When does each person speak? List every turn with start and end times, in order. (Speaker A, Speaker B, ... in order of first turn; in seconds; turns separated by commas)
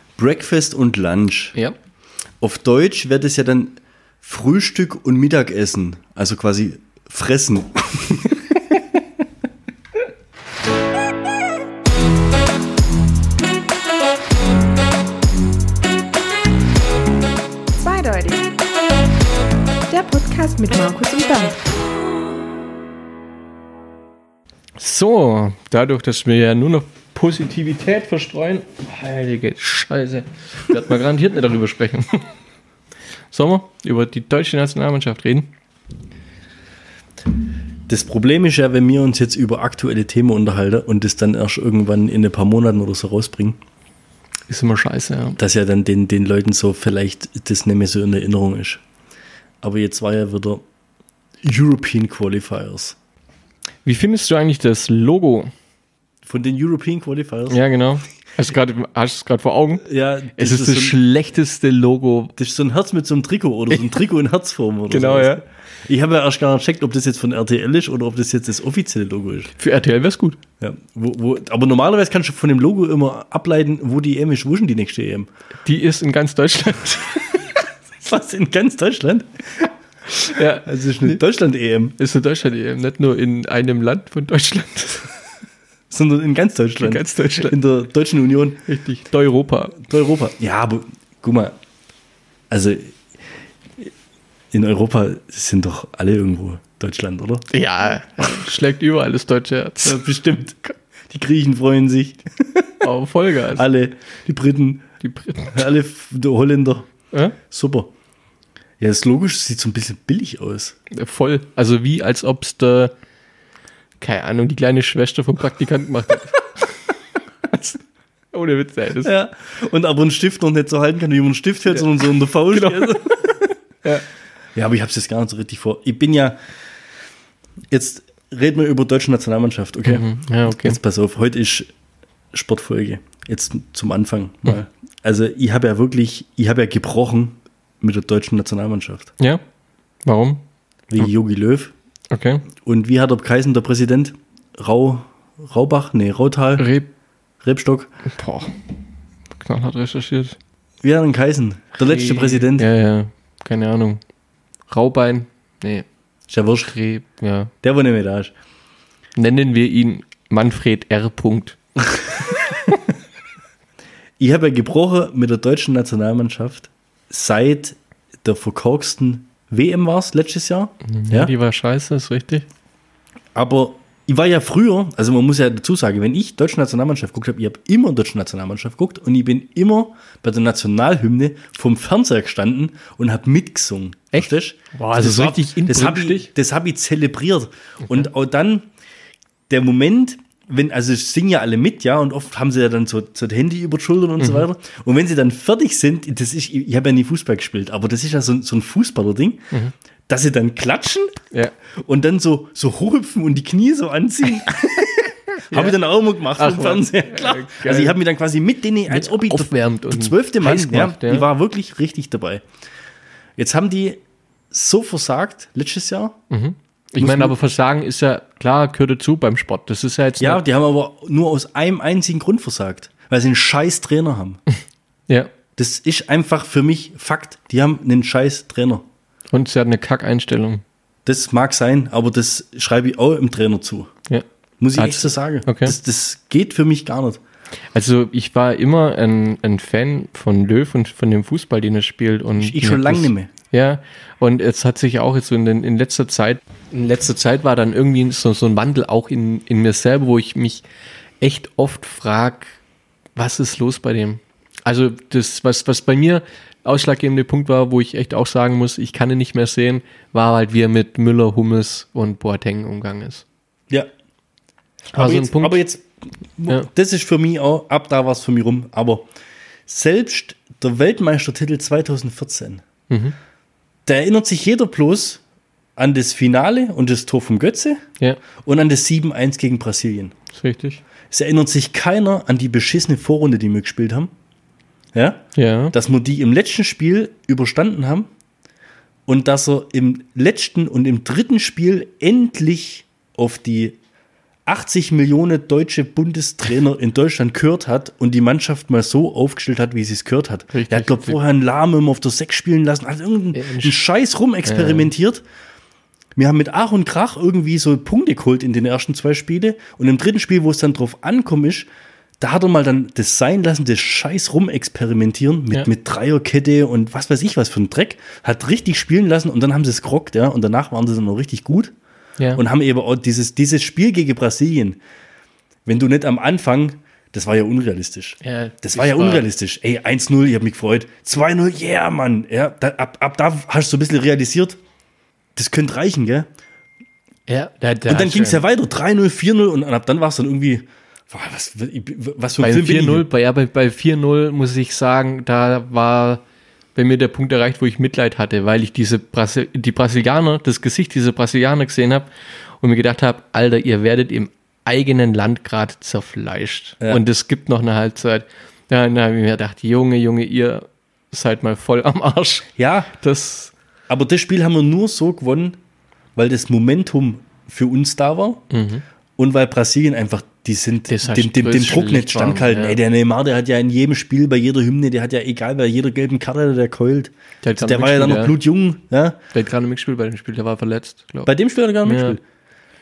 Speaker A: 0.2-1.6, Speaker A: 2.4-8.4, Speaker B: 17.8-18.6, Speaker B: 19.9-21.6, Speaker C: 24.8-32.3, Speaker C: 33.3-35.5, Speaker A: 37.9-43.6, Speaker C: 44.5-45.4, Speaker A: 45.4-48.8, Speaker A: 49.6-50.6, Speaker A: 51.4-53.0, Speaker C: 53.9-55.5, Speaker A: 56.3-57.6, Speaker C: 57.5-59.9, Speaker A: 59.8-61.0, Speaker C: 60.4-62.4, Speaker A: 62.4-69.5, Speaker C: 64.9-65.4, Speaker C: 69.6-70.4, Speaker A: 70.6-75.3, Speaker C: 75.7-77.5, Speaker A: 78.0-79.7, Speaker C: 80.2-81.2, Speaker A: 80.6-82.0, Speaker C: 82.0-85.1, Speaker A: 85.9-88.6, Speaker C: 86.8-87.6, Speaker C: 88.7-89.8, Speaker A: 89.8-91.6, Speaker A: 92.5-93.0, Speaker A: 94.5-97.5, Speaker C: 97.5-100.0, Speaker A: 99.8-102.8, Speaker C: 102.8-103.7, Speaker A: 103.5-104.9, Speaker C: 105.0-105.6, Speaker A: 105.5-106.9, Speaker A: 107.5-107.9, Speaker A: 108.8-110.8, Speaker C: 110.9-112.9, Speaker C: 114.0-116.9, Speaker C: 117.5-117.8, Speaker C: 118.3-119.1, Speaker A: 119.0-123.5, Speaker C: 122.5-124.0, Speaker A: 124.5-126.4, Speaker A: 127.7-131.7, Speaker C: 129.8-130.8, Speaker A: 132.3-139.1, Speaker C: 140.1-140.4, Speaker A: 140.9-141.7, Speaker C: 142.1-142.4, Speaker A: 142.6-146.7, Speaker C: 146.6-146.9, Speaker A: 147.4-147.9, Speaker C: 148.1-148.6, Speaker C: 149.4-150.4, Speaker A: 150.8-152.7, Speaker C: 151.8-154.0, Speaker C: 154.7-155.8, Speaker A: 156.3-156.7, Speaker C: 156.7-157.5, Speaker A: 157.6-158.3, Speaker C: 159.2-161.6, Speaker C: 162.2-162.7, Speaker A: 164.2-171.3, Speaker C: 170.9-172.5, Speaker A: 173.3-188.7, Speaker C: 184.1-186.3, Speaker A: 189.5-199.5, Speaker C: 194.2-194.4, Speaker A: 200.1-201.2, Speaker A: 201.8-212.4, Speaker C: 205.5-205.8, Speaker C: 206.3-208.0, Speaker C: 208.9-211.3, Speaker A: 213.4-214.0, Speaker A: 214.5-216.2, Speaker C: 216.3-220.4, Speaker A: 217.0-217.3, Speaker A: 220.2-224.4, Speaker C: 225.1-225.3, Speaker A: 225.6-228.8, Speaker C: 229.3-230.6, Speaker A: 231.1-233.9, Speaker A: 234.6-237.2, Speaker C: 234.8-235.8, Speaker C: 237.7-250.6, Speaker A: 242.4-243.3, Speaker C: 251.2-252.6, Speaker C: 253.2-263.2, Speaker C: 264.9-265.6, Speaker A: 264.9-265.9, Speaker A: 266.4-269.1, Speaker A: 269.7-272.6, Speaker C: 272.9-273.1, Speaker A: 273.9-275.2, Speaker A: 275.8-277.8, Speaker A: 278.4-280.1, Speaker C: 280.3-280.8, Speaker A: 281.1-284.1, Speaker A: 284.9-288.1, Speaker C: 285.4-285.8, Speaker A: 289.1-293.8, Speaker A: 294.5-305.2, Speaker C: 300.5-301.2, Speaker C: 303.3-303.8, Speaker C: 304.5-304.9, Speaker A: 306.2-311.7, Speaker A: 312.2-321.7, Speaker A: 322.4-324.8, Speaker A: 325.7-334.6, Speaker C: 328.2-329.2, Speaker A: 335.4-336.3, Speaker C: 337.3-338.4, Speaker A: 337.9-343.1, Speaker C: 342.4-346.2, Speaker C: 346.8-352.1, Speaker C: 352.6-363.5, Speaker A: 362.6-362.9, Speaker A: 363.9-365.6, Speaker A: 366.2-368.4, Speaker C: 368.5-368.8, Speaker A: 369.2-379.2, Speaker C: 370.9-372.8, Speaker C: 377.4-378.4, Speaker C: 379.3-381.3, Speaker A: 381.2-382.2, Speaker C: 381.8-382.2